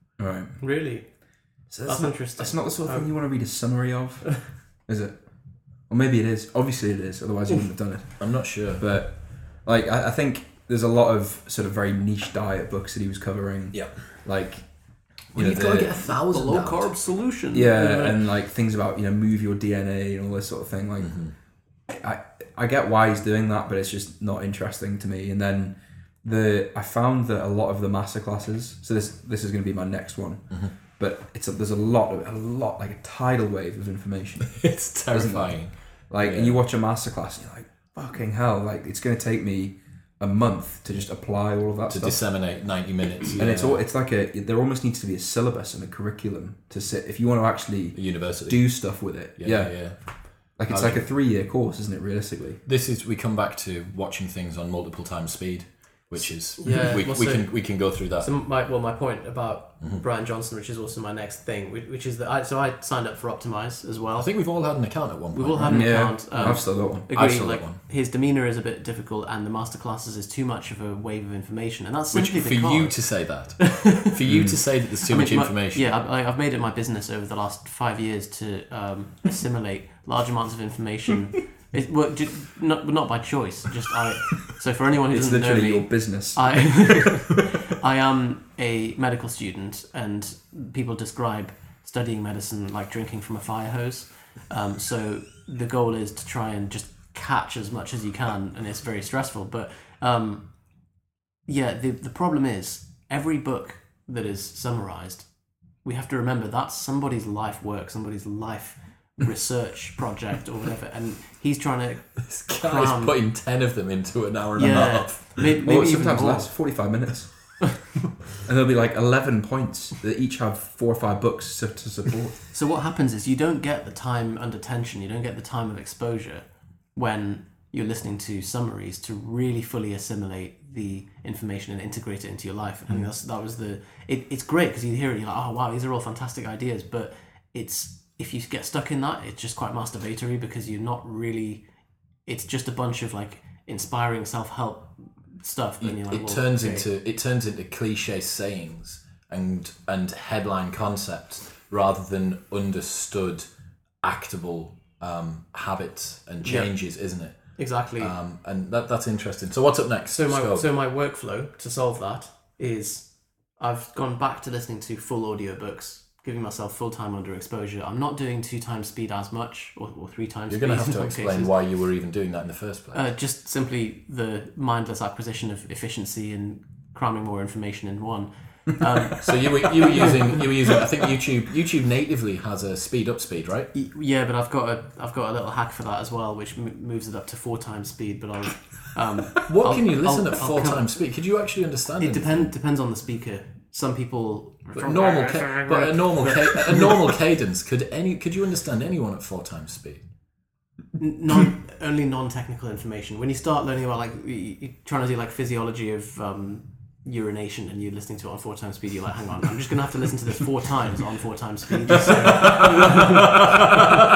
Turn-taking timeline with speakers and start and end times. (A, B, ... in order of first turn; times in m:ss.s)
0:00.2-0:01.1 A
0:00.6-0:03.6 B
0:01.7-0:16.3 A
0:08.2-0:08.9 C
0:13.7-0:14.7 C
0:15.3-0:17.2 C
0:16.3-0:18.2 B
0:17.5-0:42.6 A
0:21.0-0:21.3 C
0:34.6-0:36.6 C
0:41.9-0:43.8 C
0:43.3-0:52.6 A
0:47.9-0:51.1 C
0:52.6-0:58.4 C
0:56.6-1:04.8 B
0:56.6-0:57.0 A
1:04.2-1:07.8 C
1:05.3-1:53.2 B
1:05.7-1:07.1 A
1:12.1-1:15.8 C
1:14.2-1:14.6 A
1:25.1-1:27.1 A
1:52.2-1:55.5 C
1:54.6-1:56.9 B
1:55.6-1:57.7 A
1:58.4-2:02.5 A
2:02.5-2:26.9 B
2:25.8-2:40.6 C
2:36.4-2:38.1 B
2:40.1-2:51.6 B
2:50.5-2:53.1 C
2:52.9-3:00.3 B
2:59.2-3:03.7 C
3:03.7-3:11.1 B
3:09.5-3:12.5 C
3:12.0-3:17.0 B
3:14.7-3:20.1 C
3:21.0-3:33.5 B